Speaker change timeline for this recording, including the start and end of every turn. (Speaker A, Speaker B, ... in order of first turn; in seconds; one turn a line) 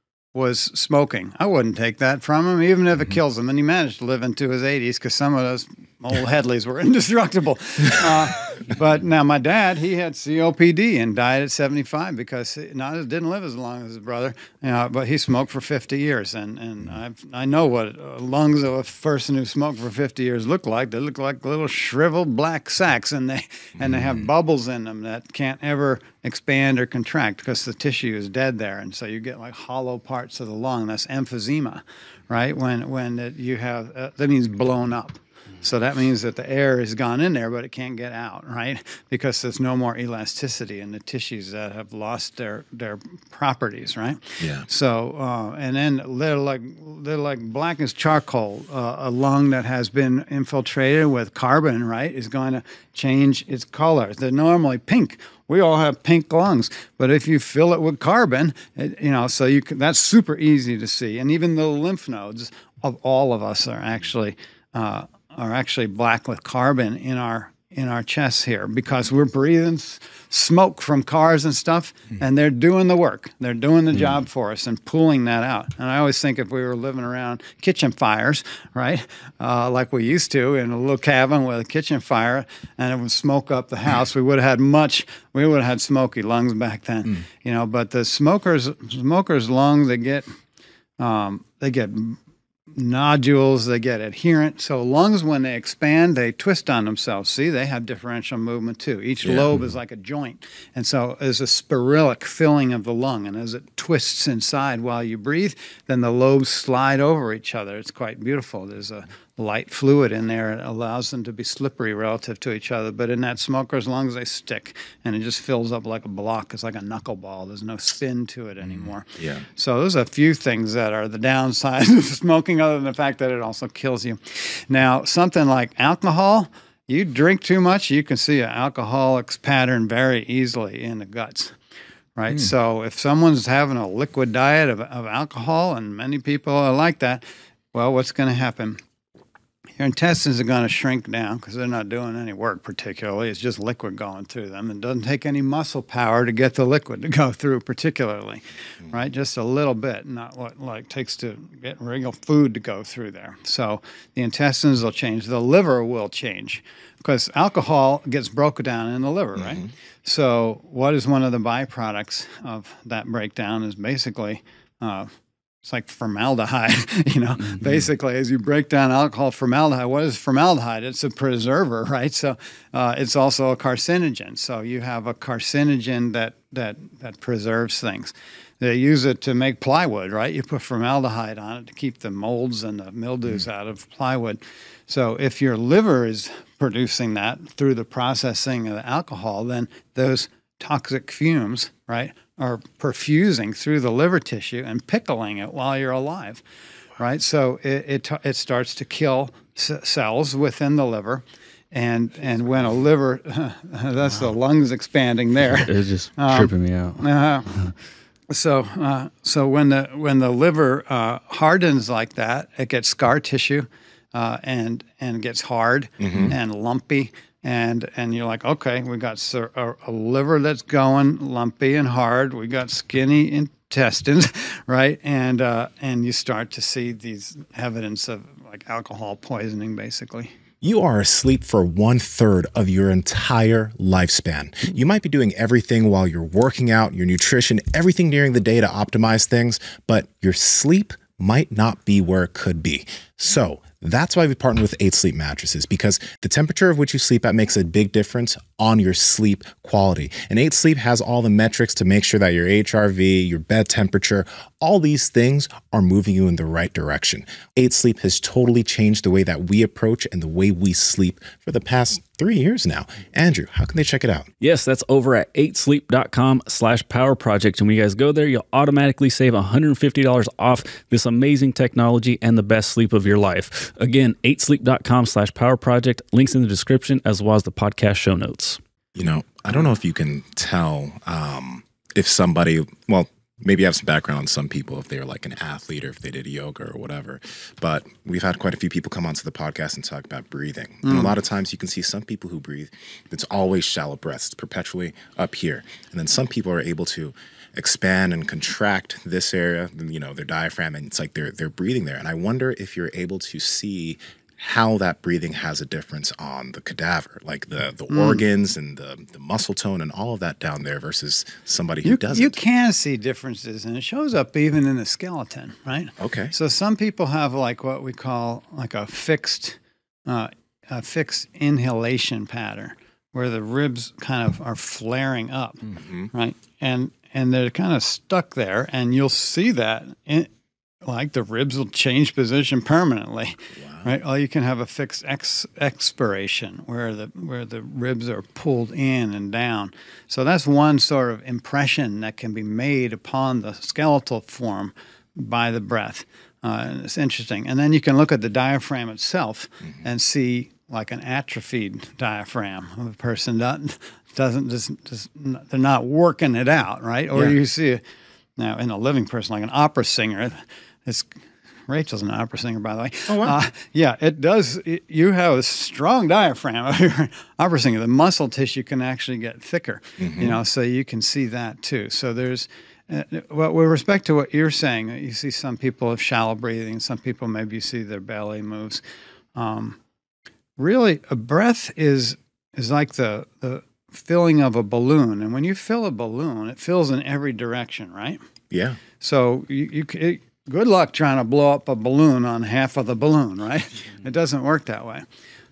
Speaker A: 0.3-90.3
Speaker B: 44.4-44.6
Speaker A: 91.0-92.2
Speaker A: 92.7-131.6
Speaker B: 99.2-99.5
Speaker B: 118.6-119.5
Speaker A: 132.2-138.8
Speaker A: 139.8-165.1
Speaker B: 159.4-159.7
Speaker A: 165.6-196.4
Speaker A: 197.0-207.5
Speaker C: 205.5-207.0
Speaker A: 208.3-230.3
Speaker B: 216.0-216.3
Speaker B: 230.6-264.3
Speaker C: 264.4-278.6
Speaker B: 278.9-312.4
Speaker A: 290.8-291.1
Speaker A: 307.9-308.2
Speaker A: 311.8-330.3
Speaker B: 316.0-316.3
Speaker B: 325.7-326.1
Speaker A: 330.8-357.8
Speaker B: 333.6-333.9
Speaker A: 358.4-361.1
Speaker A: 361.7-378.8
Speaker B: 363.1-363.4
Speaker B: 370.0-370.4
Speaker A: 379.3-379.8
Speaker A: 380.6-388.2
Speaker B: 388.5-388.8
Speaker A: 389.0-395.0